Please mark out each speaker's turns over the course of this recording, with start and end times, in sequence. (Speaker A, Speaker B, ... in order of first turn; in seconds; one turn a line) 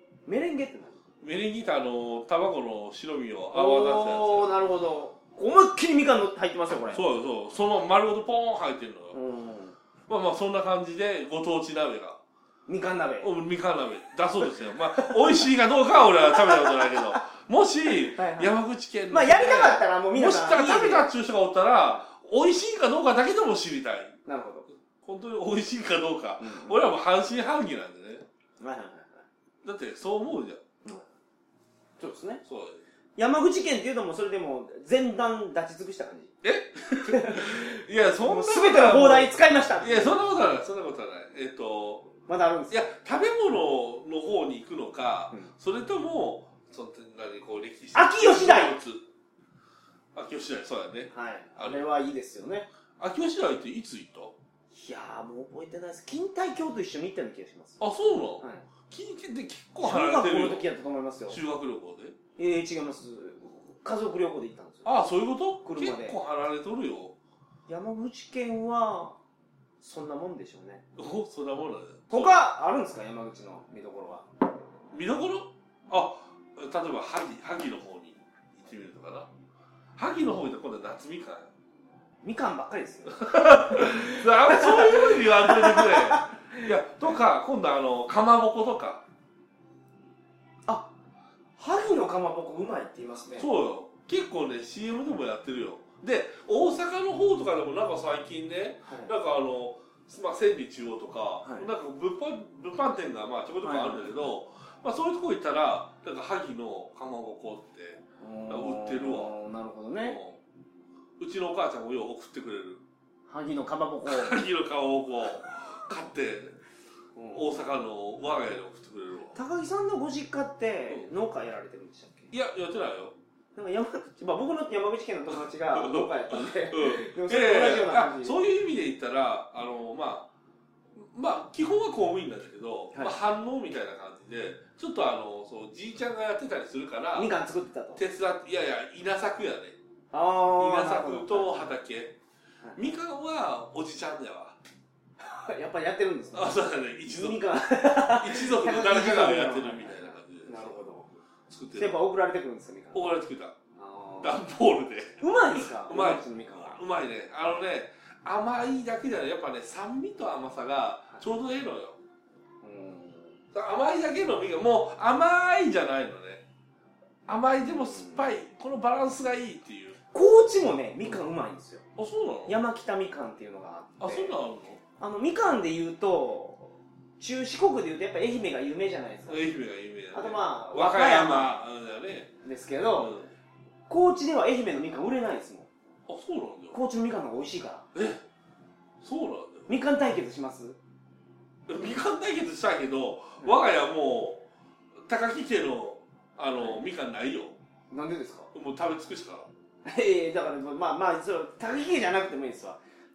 Speaker A: 0.3-1.0
Speaker B: 1.2-4.5
Speaker A: 3.5-7.0
Speaker B: 6.9-9.2
Speaker A: 9.1-9.8
Speaker B: 10.1-12.2
Speaker A: 12.7-13.3
Speaker B: 13.2-24.2
Speaker A: 16.4-17.2
Speaker A: 18.1-18.6
Speaker A: 19.1-21.1
Speaker A: 24.3-24.7
Speaker B: 25.0-28.2
Speaker A: 26.4-26.8
Speaker A: 28.6-29.2
Speaker B: 29.6-30.6
Speaker A: 32.0-32.4
Speaker B: 32.5-32.8
Speaker A: 33.2-36.3
Speaker B: 36.4-42.1
Speaker A: 37.1-40.2
Speaker A: 42.3-42.8
Speaker B: 42.7-49.0
Speaker A: 47.9-48.8
Speaker B: 50.1-51.8
Speaker A: 51.1-52.7
Speaker B: 53.0-54.4
Speaker A: 54.7-57.8
Speaker B: 57.8-60.7
Speaker A: 58.4-58.7
Speaker A: 59.8-61.4
Speaker B: 61.3-62.2
Speaker A: 62.4-64.9
Speaker B: 64.8-67.2
Speaker A: 65.6-66.2
Speaker A: 67.7-69.2
Speaker A: 69.8-70.8
Speaker B: 71.0-72.4
Speaker A: 72.1-74.3
Speaker B: 74.9-79.3
Speaker B: 80.0-81.5
Speaker A: 82.2-86.6
Speaker B: 83.2-89.0
Speaker A: 91.6-93.5
Speaker B: 93.4-109.3
Speaker A: 98.9-99.1
Speaker A: 103.6-104.1
Speaker A: 108.2-110.2
Speaker B: 110.0-110.4
Speaker B: 111.2-112.8
Speaker A: 113.3-114.4
Speaker B: 114.0-116.6
Speaker A: 117.2-117.6
Speaker B: 117.3-119.4
Speaker A: 119.3-122.3
Speaker B: 122.3-123.2
Speaker A: 123.5-128.4
Speaker B: 125.8-130.3
Speaker B: 130.9-137.3
Speaker A: 137.2-138.0
Speaker B: 138.0-139.8
Speaker A: 140.1-141.7
Speaker B: 140.6-142.2
Speaker B: 142.8-144.6
Speaker A: 145.2-151.1
Speaker B: 146.3-150.8
Speaker B: 151.5-152.0
Speaker A: 151.8-153.1
Speaker B: 152.9-153.6
Speaker A: 153.8-154.4
Speaker B: 154.2-162.0
Speaker A: 155.2-156.8
Speaker A: 162.6-163.4
Speaker B: 163.5-166.4
Speaker B: 167.3-170.0
Speaker A: 167.7-168.2
Speaker A: 170.1-171.8
Speaker B: 172.0-172.6
Speaker A: 172.5-174.3
Speaker B: 174.0-174.8
Speaker A: 175.0-179.4
Speaker B: 179.3-182.3
Speaker A: 180.1-181.6
Speaker A: 182.4-183.1
Speaker B: 183.0-183.3
Speaker A: 183.9-185.7
Speaker B: 186.1-186.8
Speaker A: 186.7-187.9
Speaker B: 187.9-188.2
Speaker B: 189.0-189.7
Speaker A: 189.7-190.8
Speaker B: 191.7-194.4
Speaker B: 195.0-197.6
Speaker A: 197.9-198.5
Speaker B: 198.5-199.5
Speaker A: 199.8-202.8